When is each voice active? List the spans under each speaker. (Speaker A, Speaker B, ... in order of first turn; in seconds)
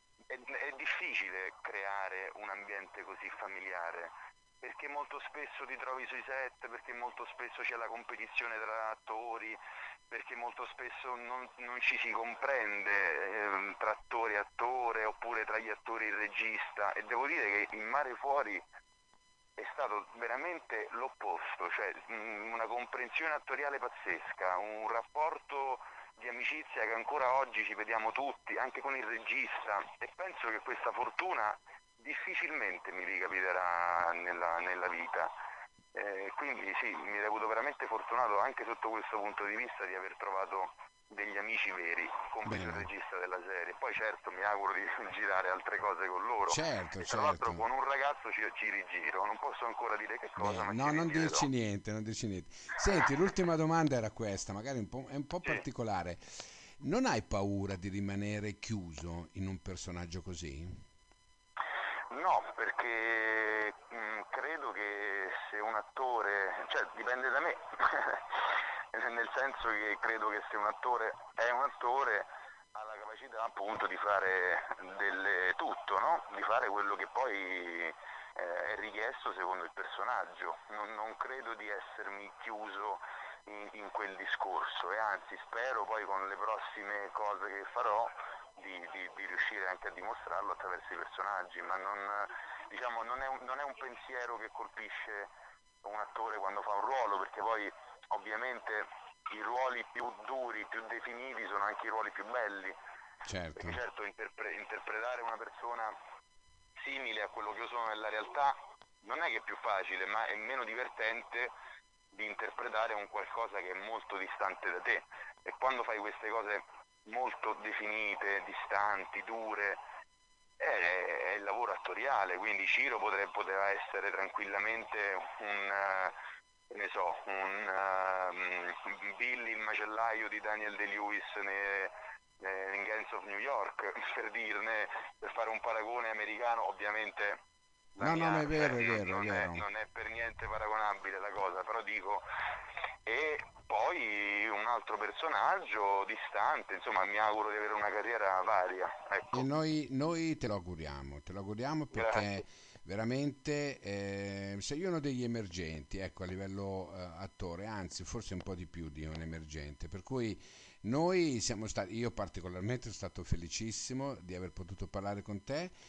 Speaker A: 0.3-9.6, 10.1-18.6, 19.6-35.3, 35.9-51.5, 62.1-95.3, 95.8-102.7, 103.5-105.9, 106.8-111.5, 112.1-119.8, 120.6-126.1, 126.7-137.4, 137.9-142.2, 143.0-149.5, 151.9-152.4
Speaker B: 42.4-42.9, 46.5-47.6, 50.4-60.8, 103.2-103.8, 138.0-139.6, 149.3-165.7